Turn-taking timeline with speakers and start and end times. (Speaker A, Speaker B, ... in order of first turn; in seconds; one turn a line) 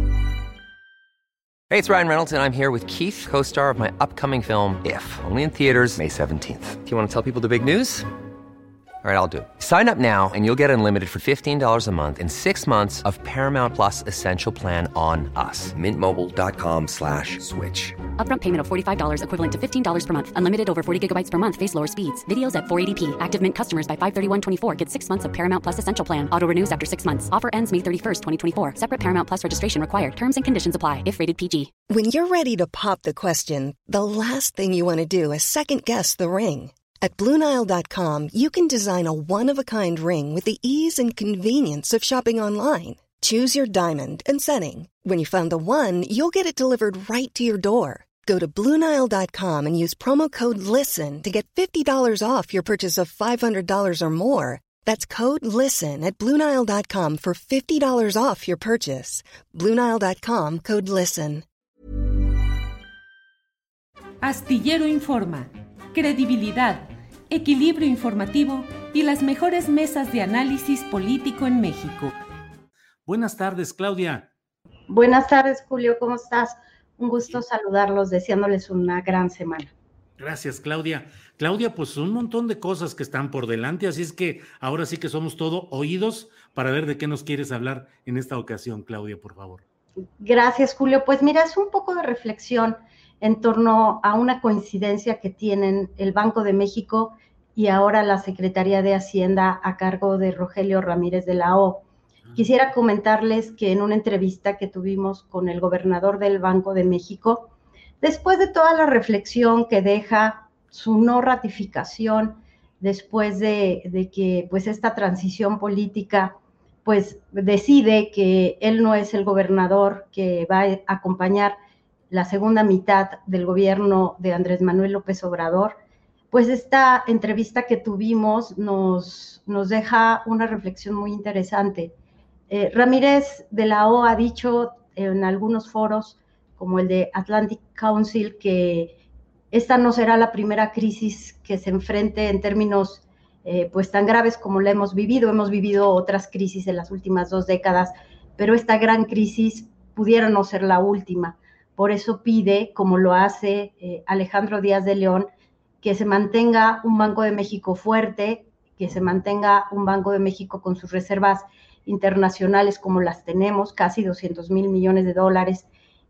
Speaker A: 1.7-8.1
Speaker A: 9.0-17.9
Speaker B: 18.1-31.7
Speaker C: 31.9-61.4
Speaker D: 64.2-72.1
Speaker E: 73.0-74.3
Speaker F: 74.9-79.7
Speaker E: 80.2-89.6
Speaker F: 90.2-101.8
Speaker F: 102.3-121.5
Speaker F: 122.1-125.8
Speaker F: 126.3-131.9
Speaker F: 132.5-138.9
Speaker F: 139.5-155.3
Speaker F: 155.8-165.7